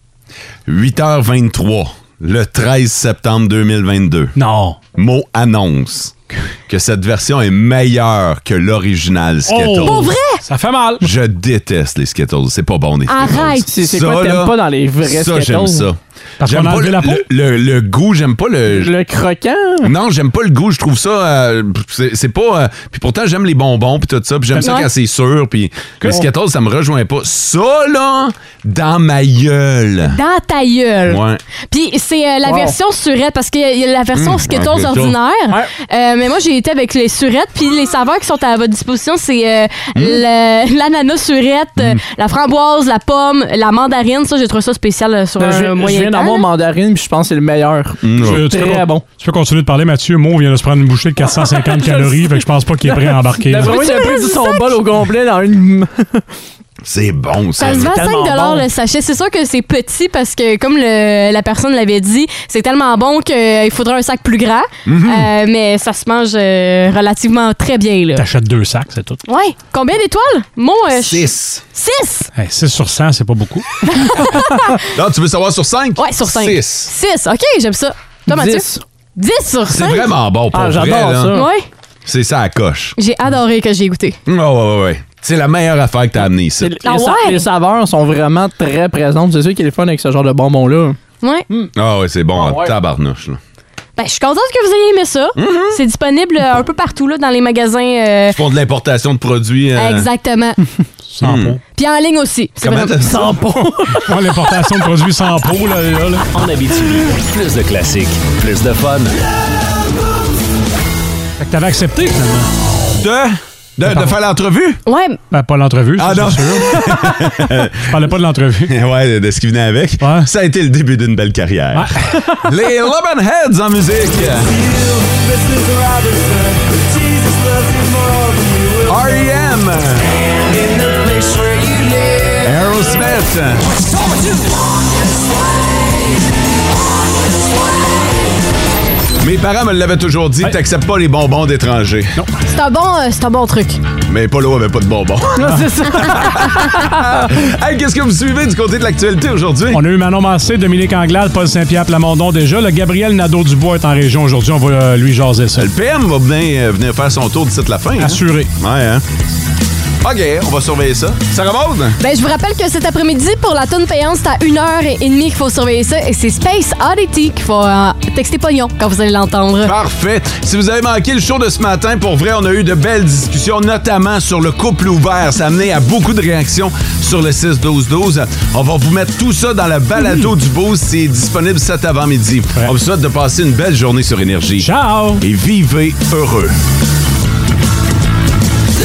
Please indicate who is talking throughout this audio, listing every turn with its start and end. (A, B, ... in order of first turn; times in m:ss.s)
0:00.7-0:04.4 A
0:04.4-0:04.8 B
0:04.9-0:10.1 A
0:09.5-0:11.1 B
0:09.8-0:10.4 C
0:11.0-0:18.9 A
0:13.1-0:13.7 C
0:13.7-0:15.9 D
0:16.4-0:17.2 B
0:18.7-0:19.9 D
0:19.8-0:30.2 A
0:24.6-0:24.9 C
0:30.0-0:46.5 C
0:31.1-0:31.4 A
0:32.4-0:32.8 D
0:34.1-0:35.2 A
0:39.9-0:40.2 A
0:45.4-0:49.1 D
0:48.0-0:48.5 A
0:48.2-0:53.8 B
0:51.2-0:56.2 D
0:53.6-0:54.8 C
0:56.8-0:58.0 A
0:57.6-1:08.3 C
0:57.8-0:58.7 D
1:04.9-1:05.3 A
1:08.2-1:09.2 B
1:09.3-1:12.3 C
1:11.0-1:11.6 A
1:12.4-1:14.3 B
1:13.9-1:14.8 C
1:14.9-1:16.9 A
1:16.0-1:20.1 C
1:18.3-1:18.8 D
1:19.7-1:21.4 A
1:20.5-1:21.5 D
1:21.3-1:21.6 C
1:22.0-1:23.0 A
1:23.0-1:24.2 C
1:24.3-1:26.8 A
1:26.6-1:31.0 D
1:26.8-1:27.5 C
1:31.8-1:33.4 A
1:32.4-1:32.7 D
1:34.0-1:38.4 C
1:35.4-1:35.8 A
1:38.3-1:40.1 A
1:39.8-1:40.6 C
1:41.1-1:41.6 B
1:41.2-1:41.6 A
1:41.8-1:43.0 C
1:42.6-1:43.4 A
1:43.0-1:44.4 D
1:43.5-1:46.3 B
1:46.3-1:49.1 E
1:51.4-1:52.5 B
1:53.0-1:54.8 A
1:53.9-1:54.1 B
1:54.9-1:55.2 C
1:55.3-1:56.9 B
1:56.0-1:58.0 A
1:57.8-1:58.7 B
1:58.7-2:04.6 A
2:00.0-2:00.3 B
2:01.8-2:02.1 B
2:04.8-2:05.8 D
2:08.8-2:10.2 A
2:12.4-2:13.7 A
2:19.2-2:22.2 A
2:22.5-2:23.8 C
2:24.0-2:29.8 A
2:25.4-2:26.9 D
2:29.7-2:35.7 B
2:35.6-2:39.0 A
2:38.0-2:38.5 B
2:40.0-2:42.0 A
2:42.0-2:49.7 C
2:49.6-3:06.6 A
3:04.6-3:05.2 B